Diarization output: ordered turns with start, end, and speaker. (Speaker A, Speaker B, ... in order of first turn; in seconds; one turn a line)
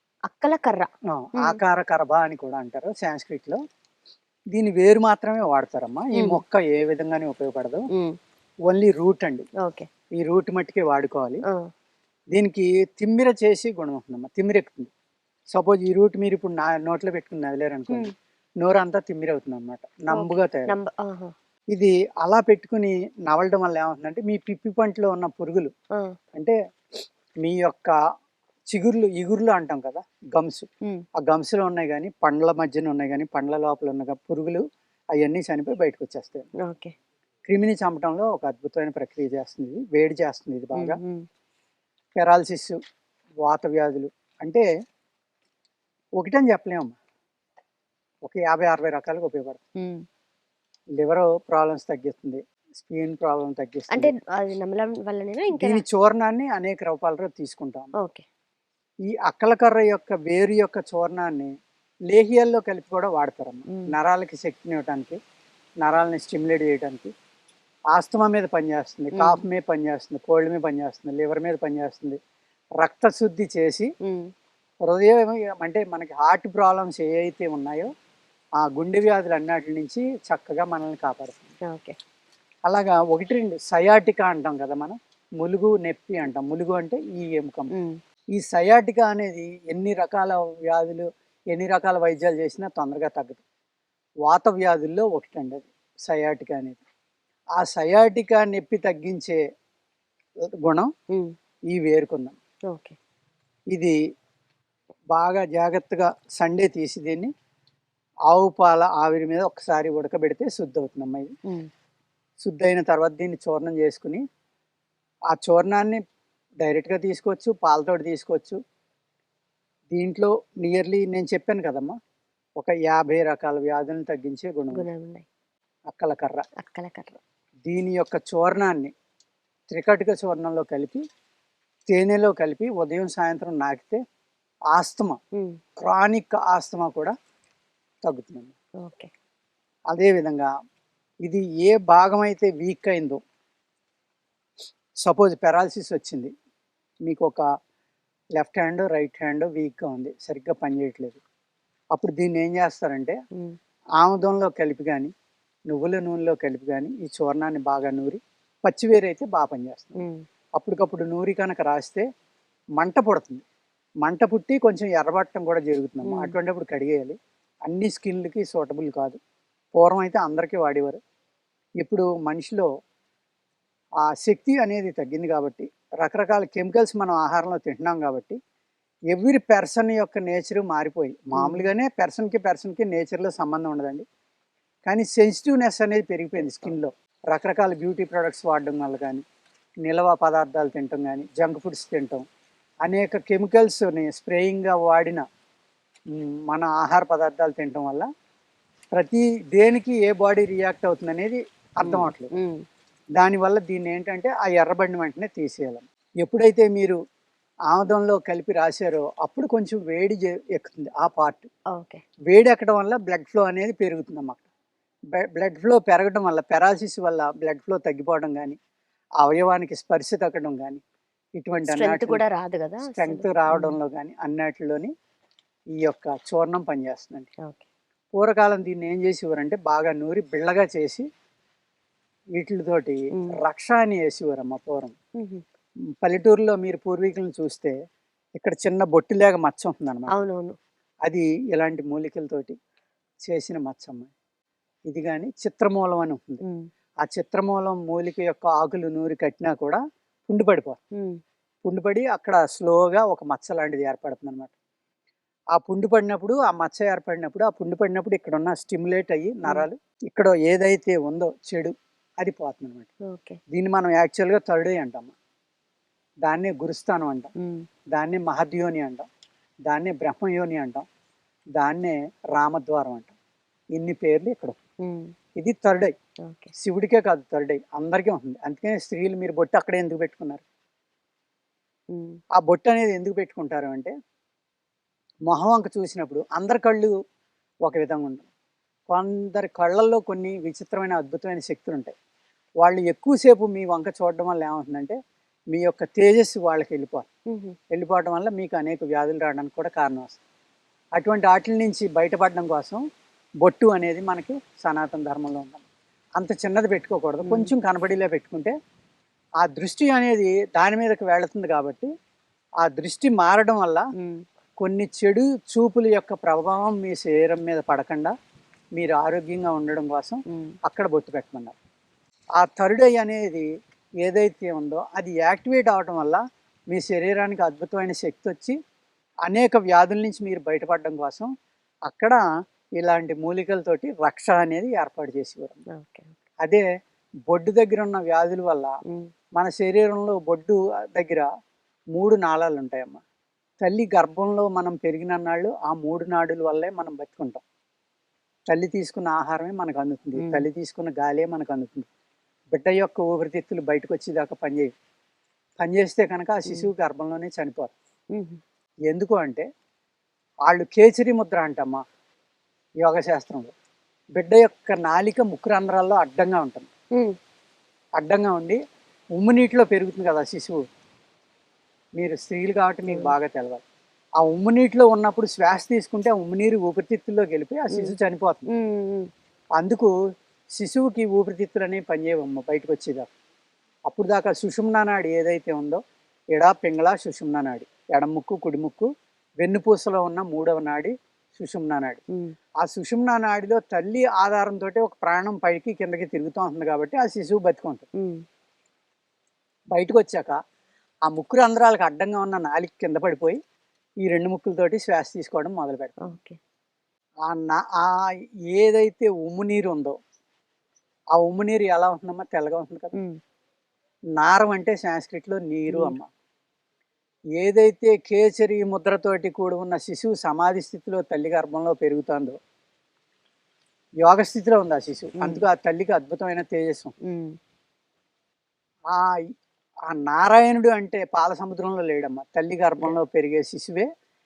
Speaker A: 0.3-1.6
Speaker B: 1.1-3.6
Speaker B: 4.5-7.9
Speaker A: 6.2-6.4
Speaker B: 8.7-9.5
Speaker A: 9.6-9.9
Speaker B: 10.2-11.4
Speaker B: 12.3-14.9
Speaker B: 15.5-18.1
Speaker B: 18.6-20.7
Speaker A: 20.1-21.3
Speaker B: 21.7-25.7
Speaker B: 27.4-27.9
Speaker B: 28.7-30.7
Speaker B: 31.2-34.6
Speaker B: 35.1-36.5
Speaker A: 36.6-36.9
Speaker B: 37.5-41.0
Speaker A: 40.8-41.3
Speaker B: 42.2-42.8
Speaker B: 43.4-44.6
Speaker B: 46.2-46.9
Speaker B: 48.2-49.6
Speaker A: 49.8-50.0
Speaker B: 51.0-54.1
Speaker A: 54.0-55.8
Speaker B: 55.6-57.9
Speaker A: 58.0-58.2
Speaker B: 59.1-61.5
Speaker B: 62.1-65.2
Speaker B: 65.8-67.1
Speaker B: 67.9-72.2
Speaker A: 69.2-69.4
Speaker B: 72.8-73.9
Speaker B: 74.8-77.9
Speaker B: 78.6-81.5
Speaker A: 81.7-82.0
Speaker B: 82.7-87.7
Speaker B: 88.4-93.4
Speaker B: 94.3-96.8
Speaker B: 97.6-99.4
Speaker B: 100.6-100.9
Speaker B: 101.7-102.3
Speaker A: 102.7-103.0
Speaker B: 105.1-107.3
Speaker B: 108.3-111.3
Speaker B: 112.4-114.2
Speaker B: 115.3-116.0
Speaker B: 116.6-118.6
Speaker B: 119.9-122.0
Speaker B: 122.6-124.9
Speaker A: 124.7-125.2
Speaker B: 125.9-126.5
Speaker A: 126.6-127.2
Speaker B: 127.7-128.9
Speaker B: 129.7-131.0
Speaker B: 131.9-134.0
Speaker B: 134.7-135.2
Speaker B: 135.8-137.2
Speaker B: 138.0-138.6
Speaker A: 138.8-139.1
Speaker B: 139.9-140.5
Speaker B: 141.2-143.2
Speaker B: 145.1-146.3
Speaker B: 147.1-147.4
Speaker B: 148.4-151.2
Speaker B: 151.9-153.2
Speaker B: 154.0-155.1
Speaker B: 155.7-160.0
Speaker A: 160.0-160.2
Speaker B: 160.6-162.1
Speaker B: 162.8-163.4
Speaker B: 164.0-169.2
Speaker A: 166.1-166.3
Speaker B: 169.8-171.0
Speaker B: 171.8-172.7
Speaker B: 174.1-178.4
Speaker B: 179.1-184.1
Speaker A: 181.4-181.7
Speaker B: 184.9-189.2
Speaker A: 186.4-186.8
Speaker B: 189.8-192.2
Speaker B: 192.9-195.2
Speaker B: 196.2-198.1
Speaker B: 198.9-202.3
Speaker A: 201.8-202.7
Speaker B: 203.2-207.0
Speaker B: 207.7-211.5
Speaker A: 211.8-212.0
Speaker B: 212.3-214.4
Speaker B: 215.2-218.6
Speaker B: 219.2-220.8
Speaker B: 221.4-222.2
Speaker A: 221.7-223.8
Speaker B: 222.9-224.9
Speaker B: 225.8-227.3
Speaker B: 228.2-231.1
Speaker B: 232.4-234.9
Speaker A: 235.2-235.4
Speaker B: 236.0-237.8
Speaker B: 238.4-240.1
Speaker A: 240.1-240.6
Speaker B: 241.1-242.6
Speaker B: 243.2-244.1
Speaker B: 244.9-246.4
Speaker B: 247.0-250.8
Speaker B: 251.6-254.5
Speaker B: 255.6-262.9
Speaker A: 263.1-263.4
Speaker B: 263.5-265.1
Speaker B: 266.2-267.3
Speaker A: 267.4-267.7
Speaker B: 267.9-269.1
Speaker B: 269.7-270.8
Speaker B: 271.6-273.1
Speaker B: 273.7-274.6
Speaker A: 274.8-275.1
Speaker B: 275.4-275.9
Speaker A: 276.2-276.5
Speaker B: 276.6-280.4
Speaker A: 281.9-282.2
Speaker B: 282.4-283.9
Speaker B: 285.3-286.9
Speaker B: 287.7-288.3
Speaker B: 288.9-291.9
Speaker B: 292.6-295.0
Speaker B: 295.5-297.1
Speaker A: 297.3-297.6
Speaker B: 297.7-300.2
Speaker B: 301.0-302.8
Speaker B: 303.4-305.6
Speaker B: 306.2-308.5
Speaker A: 307.2-307.5
Speaker B: 309.4-311.9
Speaker B: 312.6-313.8
Speaker A: 314.0-314.2
Speaker B: 314.6-318.1
Speaker B: 318.8-321.6
Speaker A: 320.3-320.6
Speaker B: 322.4-323.5
Speaker B: 324.0-328.6
Speaker B: 329.3-331.3
Speaker B: 331.9-332.2
Speaker B: 332.8-335.6
Speaker A: 335.8-336.2
Speaker B: 337.3-338.7
Speaker B: 339.4-341.3
Speaker B: 342.0-343.0
Speaker B: 343.6-347.4
Speaker B: 348.5-351.9
Speaker A: 350.2-350.5
Speaker B: 352.5-354.7
Speaker B: 355.6-357.7
Speaker A: 358.1-358.4
Speaker B: 358.9-359.4
Speaker B: 360.5-361.8
Speaker B: 362.8-363.5
Speaker B: 364.2-366.7
Speaker B: 368.0-368.6
Speaker B: 369.2-370.6
Speaker B: 372.0-373.6
Speaker A: 372.9-373.1
Speaker B: 374.2-378.5
Speaker A: 378.5-379.1
Speaker B: 379.6-379.9
Speaker B: 380.6-383.1
Speaker B: 383.9-385.8
Speaker B: 386.3-388.9
Speaker B: 389.4-392.0
Speaker B: 392.6-397.9
Speaker A: 398.0-398.2
Speaker B: 399.7-400.3
Speaker B: 401.1-403.4
Speaker B: 404.0-406.0
Speaker A: 406.1-406.4
Speaker B: 407.3-410.0
Speaker B: 411.2-412.9
Speaker B: 414.2-416.1
Speaker A: 415.7-415.9
Speaker B: 417.4-422.4
Speaker B: 424.0-426.9
Speaker A: 427.0-427.4
Speaker B: 429.9-433.9